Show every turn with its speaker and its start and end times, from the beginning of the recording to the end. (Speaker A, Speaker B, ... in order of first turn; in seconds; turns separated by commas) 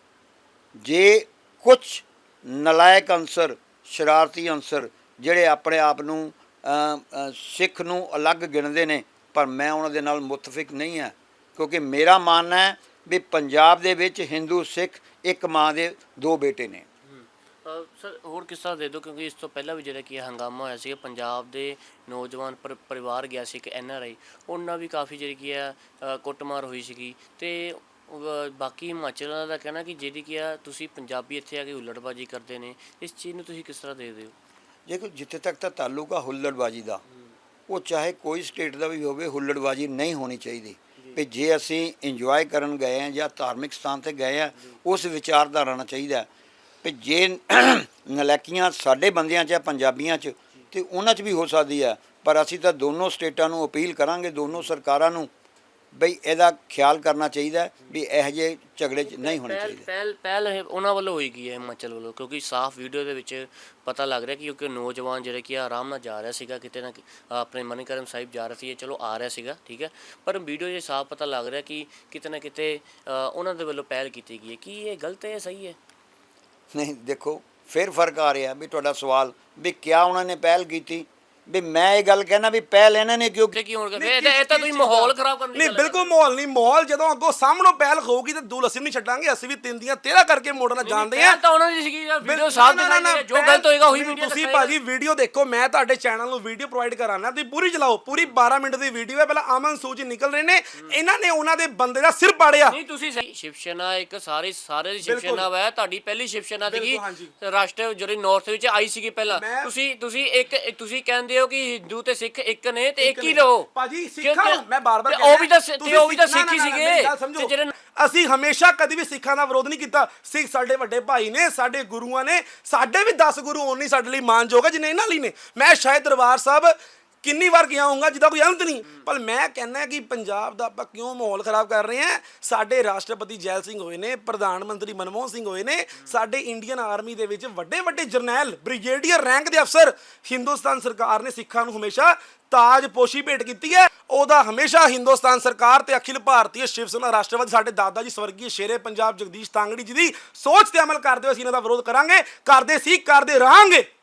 Speaker A: 0.8-16.9, Speaker B: 17.0-34.4, Speaker A: 34.9-37.0, Speaker A: 37.7-46.3, Speaker A: 46.8-55.3, Speaker A: 55.9-59.9, Speaker B: 59.0-75.8, Speaker A: 76.7-83.5, Speaker B: 83.5-86.1, Speaker C: 84.0-91.4, Speaker B: 90.8-94.8, Speaker C: 92.2-102.8, Speaker B: 102.7-113.7, Speaker C: 105.0-105.5, Speaker C: 106.7-107.3, Speaker C: 109.3-109.7, Speaker C: 113.0-153.9, Speaker B: 114.2-117.7